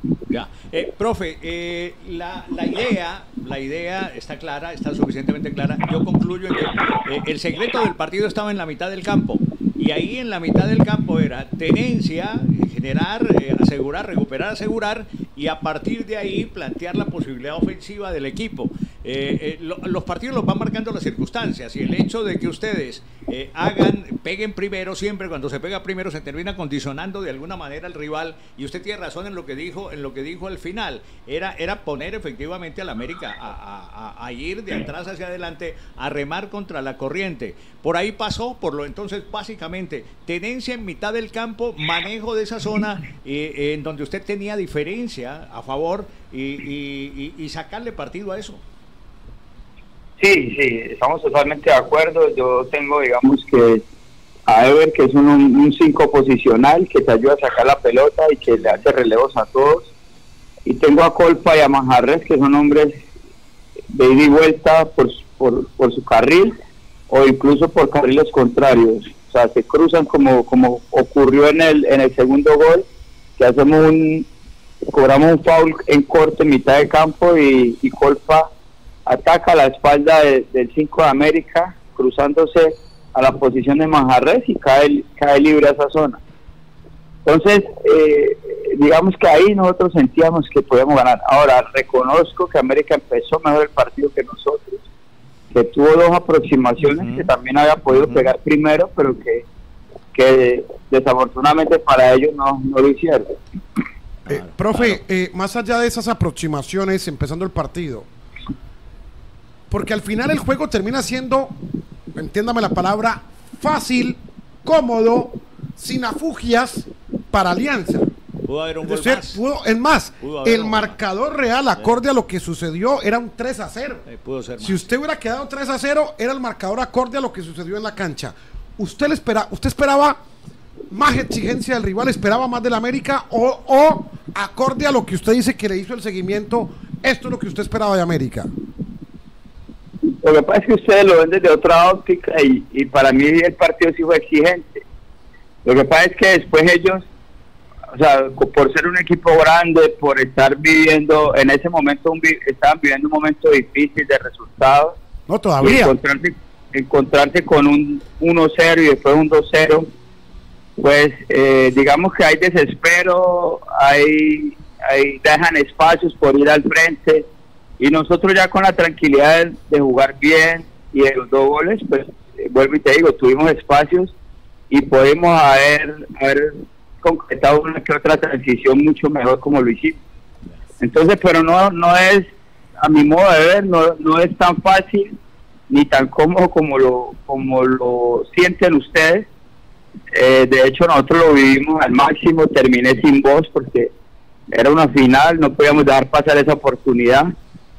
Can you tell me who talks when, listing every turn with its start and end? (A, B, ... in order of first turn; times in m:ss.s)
0:00.3-0:48.6 A
0:50.2-0:53.8 B
0:54.5-0:59.9 B
1:00.6-1:03.0 B
1:03.9-1:06.5 B
1:07.1-1:12.9 B
1:13.4-1:14.3 B
1:14.9-1:18.5 B
1:19.1-1:26.2 B
1:27.3-1:34.8 B
1:35.5-1:39.5 B
1:36.8-1:37.3 A
1:37.9-1:38.3 A
1:40.1-1:43.3 B
1:44.3-1:45.0 A
1:44.3-1:48.1 C
1:49.7-1:51.6 C
1:52.2-1:58.1 C
1:58.4-1:59.4 A
1:58.8-2:04.0 C
2:00.2-2:01.0 A
2:04.1-2:04.9 A
2:04.6-2:10.2 C
2:10.9-2:18.5 C
2:20.0-2:24.8 B
2:25.6-2:27.1 B
2:27.9-2:35.0 B
2:35.3-2:35.9 C
2:35.6-2:39.9 B
2:40.8-2:47.3 B
2:47.8-2:54.2 B
2:54.7-3:00.0 B
3:00.8-3:02.3 B
3:02.8-3:05.1 B
3:05.7-3:09.3 B
3:10.1-3:13.9 B
3:14.5-3:17.3 B